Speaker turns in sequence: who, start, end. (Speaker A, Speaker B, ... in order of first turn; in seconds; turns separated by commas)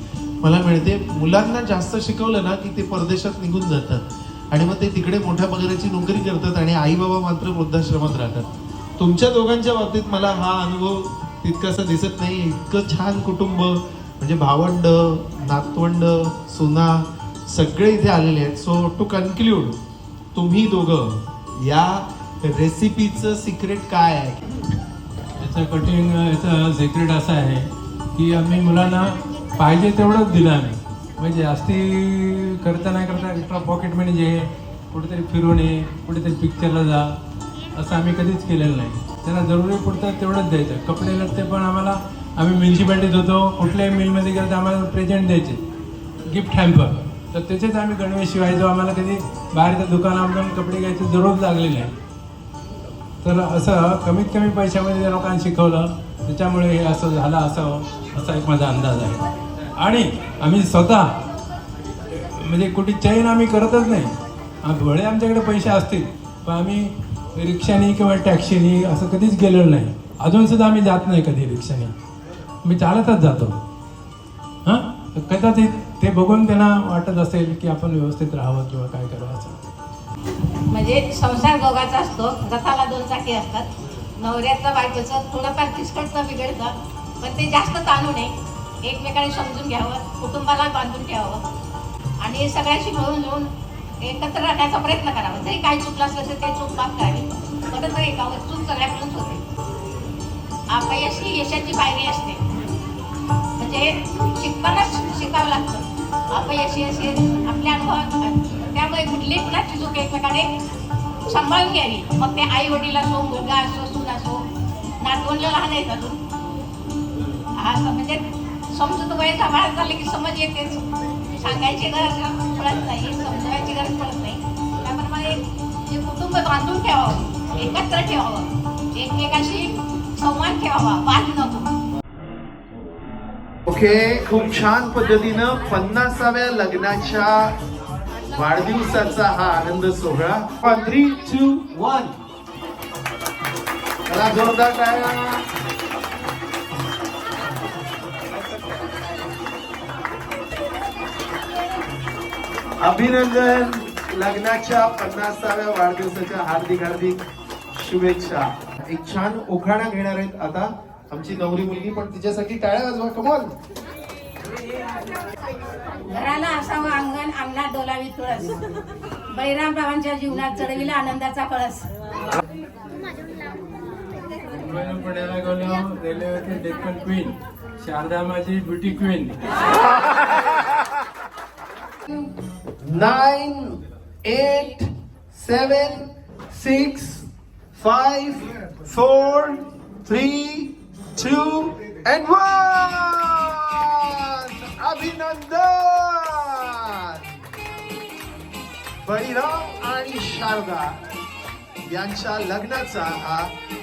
Speaker A: 0.4-19.8, Speaker A: 20.3-24.4, Speaker B: 25.4-37.1, Speaker B: 37.7-45.6, Speaker B: 46.3-51.9, Speaker B: 53.2-59.2, Speaker B: 59.8-61.1, Speaker B: 62.2-64.1, Speaker B: 64.6-71.9, Speaker B: 72.6-73.5, Speaker B: 74.6-79.6, Speaker C: 80.7-91.4, Speaker C: 92.2-93.5, Speaker C: 94.0-99.4, Speaker C: 100.7-102.4, Speaker C: 103.6-110.5, Speaker C: 111.3-114.4, Speaker C: 115.0-116.2, Speaker C: 117.6-118.2, Speaker C: 118.7-131.7, Speaker D: 133.7-137.5, Speaker D: 138.3-142.1, Speaker D: 144.1-145.3, Speaker D: 152.8-157.1, Speaker D: 158.0-158.4, Speaker A: 159.0-159.7, Speaker D: 159.0-163.5, Speaker C: 166.6-166.9, Speaker C: 170.2-171.6, Speaker B: 174.5-179.3, Speaker D: 182.9-184.8, Speaker D: 185.3-187.2, Speaker D: 187.8-197.2, Speaker D: 199.1-200.9, Speaker D: 201.9-203.5